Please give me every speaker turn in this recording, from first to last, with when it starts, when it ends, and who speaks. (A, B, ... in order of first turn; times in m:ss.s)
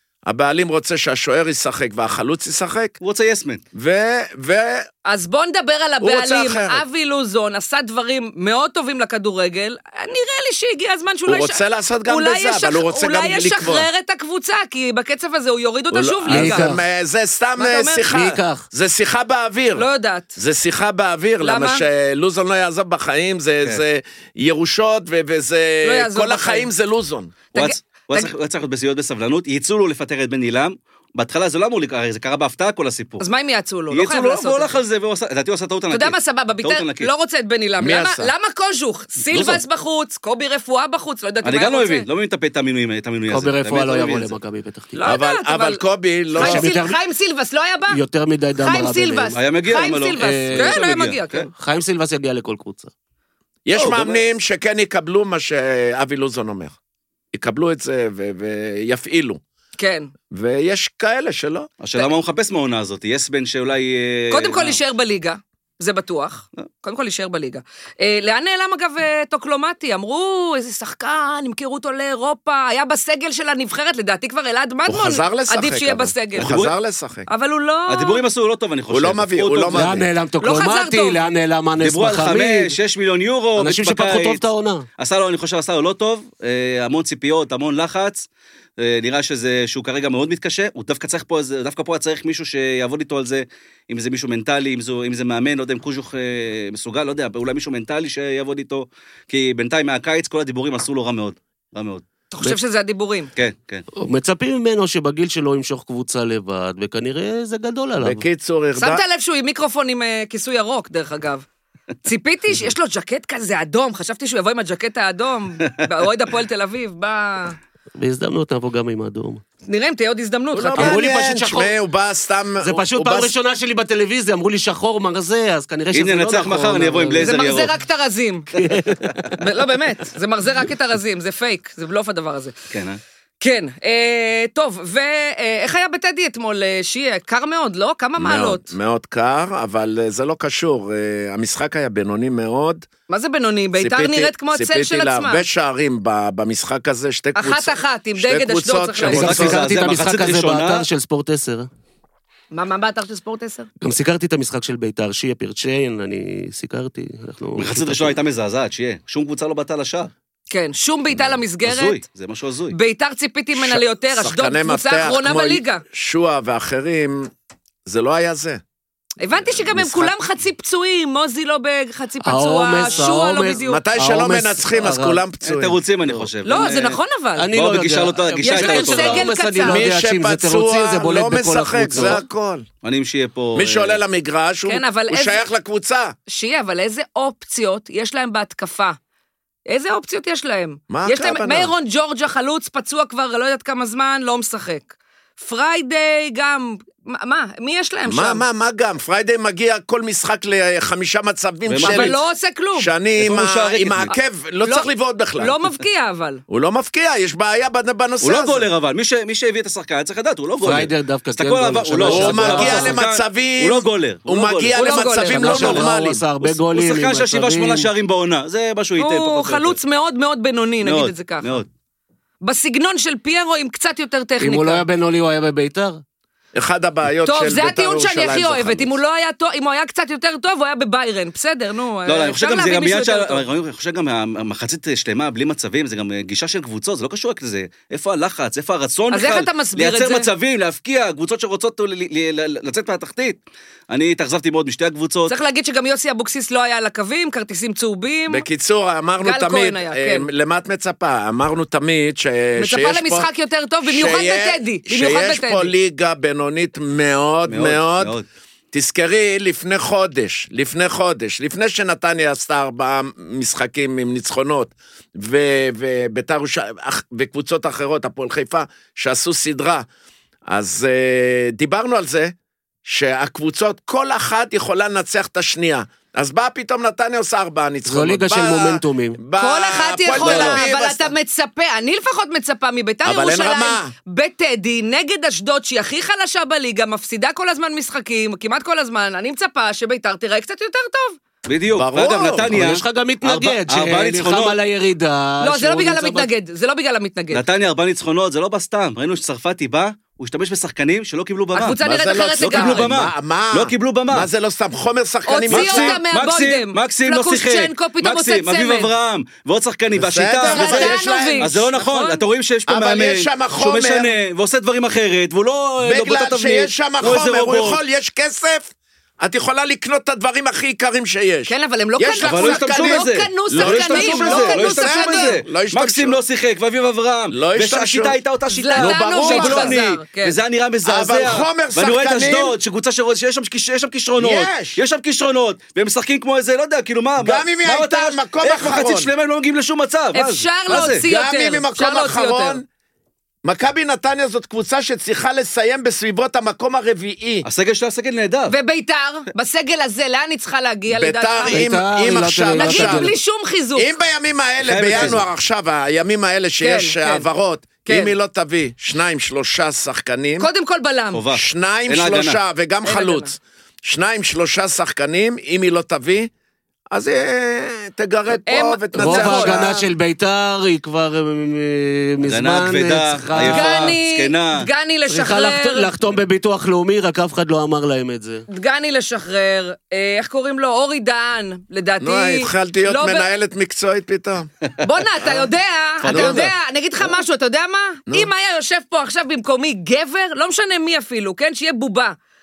0:00.3-0:02.9 A
0:03.0-0:03.6 B
0:03.8-0:04.9 A
0:05.1-0:16.7 C
0:06.0-0:06.8 A
0:11.3-0:13.9 A
0:15.9-0:27.4 A
0:16.3-0:16.8 D
0:17.6-0:18.1 C
0:18.0-0:18.6 D
0:19.8-0:20.4 C
0:21.4-0:21.8 C
0:25.8-0:26.7 C
0:27.5-0:28.3 C
0:27.5-0:33.2 B
0:33.2-0:34.8 C
0:33.9-0:37.1 B
0:35.9-0:42.1 C
0:37.8-0:38.3 A
0:39.3-0:39.6 B
0:41.4-0:44.4 B
0:43.3-0:45.0 D
0:45.0-0:45.8 C
0:45.0-0:46.7 A
0:46.3-0:48.0 C
0:46.4-0:47.0 D
0:47.9-0:49.4 D
0:48.6-0:51.5 C
0:49.3-0:51.5 B
0:50.2-0:50.8 D
0:51.6-0:52.9 D
0:53.7-0:56.8 A
0:53.7-0:54.2 B
0:57.3-0:59.4 A
0:59.8-1:00.1 C
1:00.3-1:01.7 A
1:01.8-1:04.8 B
1:04.3-1:16.6 C
1:14.9-1:17.3 A
1:16.4-1:16.7 B
1:17.3-1:18.2 C
1:17.9-1:20.0 B
1:18.9-1:20.1 A
1:19.7-1:22.8 D
1:20.4-1:21.2 C
1:21.8-1:24.4 B
1:23.6-1:24.9 D
1:25.0-1:42.0 B
1:42.3-1:43.3 C
1:43.4-1:43.8 B
1:44.0-1:48.2 D
1:48.0-1:49.0 A
1:48.8-1:51.4 C
1:52.0-1:57.6 C
1:58.0-1:59.4 D
1:59.7-2:01.1 C
2:00.5-2:03.3 A
2:00.8-2:01.7 D
2:02.6-2:07.4 D
2:05.9-2:07.7 B
2:07.2-2:08.5 C
2:08.5-2:09.4 D
2:09.4-2:12.6 C
2:12.7-2:13.0 B
2:13.4-2:18.7 C
2:18.2-2:22.9 A
2:23.1-2:25.4 C
2:23.8-2:29.7 A
2:27.4-2:29.4 C
2:29.1-2:31.7 D
2:29.1-2:30.9 B
2:32.5-2:33.7 C
2:33.8-2:38.2 D
2:37.6-2:40.1 B
2:40.5-2:42.0 C
2:41.6-2:42.8 B
2:42.7-2:45.8 C
2:43.6-2:47.3 A
2:47.9-2:48.6 A
2:49.2-2:53.8 C
2:49.6-2:50.1 A
2:52.2-2:55.2 D
2:53.7-2:55.8 A
2:55.4-2:57.0 B
2:56.4-2:57.5 C
2:57.4-3:02.2 D
2:57.5-2:59.3 B
2:58.4-2:59.9 C
2:59.6-3:02.7 A
3:02.0-3:02.2 B
3:02.8-3:04.0 B
3:03.6-3:06.2 A
3:04.7-3:05.4 C
3:06.3-3:09.0 C
3:09.7-3:18.4 C
3:10.9-3:11.7 A
3:18.1-3:22.2 A
3:21.7-3:22.2 B
3:21.8-3:22.9 C
3:22.8-3:25.5 A
3:23.2-3:24.1 B
3:24.1-3:26.4 C
3:26.5-3:28.7 A
3:28.2-3:34.8 B
3:30.6-3:33.0 D
3:32.0-3:36.2 A
3:34.7-3:35.9 C
3:35.1-3:37.9 D
3:36.4-3:39.8 B
3:39.0-3:41.6 C
3:40.8-3:41.7 B
3:42.4-3:44.8 C
3:44.4-3:46.0 D
3:46.5-3:49.0 A
3:47.2-3:53.4 C
3:52.1-4:03.4 B
3:59.1-4:00.3 C
4:03.9-4:05.3 B
4:05.3-4:08.4 C
4:08.3-4:13.3 A
4:09.2-4:10.3 C
4:12.6-4:15.7 C
4:13.9-4:18.1 A
4:17.5-4:18.2 B
4:18.7-4:29.9 A
4:30.5-4:32.3 A
4:32.8-4:41.1 A
4:37.9-4:39.2 D
4:39.4-4:51.2 C
4:40.2-4:40.6 B
4:43.0-4:43.9 A
4:51.5-4:54.6 B
4:51.8-4:52.5 A
4:52.5-4:56.3 D
4:55.4-4:57.4 C
4:57.3-5:01.8 B
5:01.6-5:02.9 C
5:01.8-5:06.0 A
5:02.4-5:04.3 B
5:05.3-5:08.9 C
5:05.5-5:17.8 B
5:10.0-5:11.5 A
5:10.4-5:12.2 C
5:12.7-5:14.1 A
5:15.8-5:26.2 A
5:21.5-5:25.4 C
5:22.2-5:41.0 B
5:27.3-5:28.2 A
5:28.5-5:30.4 C
5:28.8-5:29.8 A
5:30.9-5:32.6 A
5:34.2-5:34.8 A
5:37.2-5:39.1 A
5:40.1-5:42.6 C
5:41.0-5:42.7 A
5:43.4-5:47.5 A
5:47.4-5:48.6 B
5:48.5-5:51.7 C
5:50.9-5:53.1 A
5:51.5-5:53.1 D
5:52.5-5:53.9 C
5:53.8-6:00.5 A
5:54.6-5:55.2 B
5:56.6-5:57.3 C
5:57.9-5:58.1 C
6:00.4-6:01.2 C
6:01.1-6:02.4 B
6:01.3-6:06.3 A
6:02.9-6:03.3 C
6:06.9-6:09.7 A
6:08.5-6:09.8 C
6:09.0-6:14.0 D
6:12.3-6:14.7 B
6:13.4-6:15.9 C
6:15.1-6:18.4 D
6:18.5-6:23.3 C
6:22.0-6:24.5 A
6:24.8-6:32.2 C
6:25.2-6:25.5 A
6:26.0-6:26.5 A
6:26.0-6:26.5 B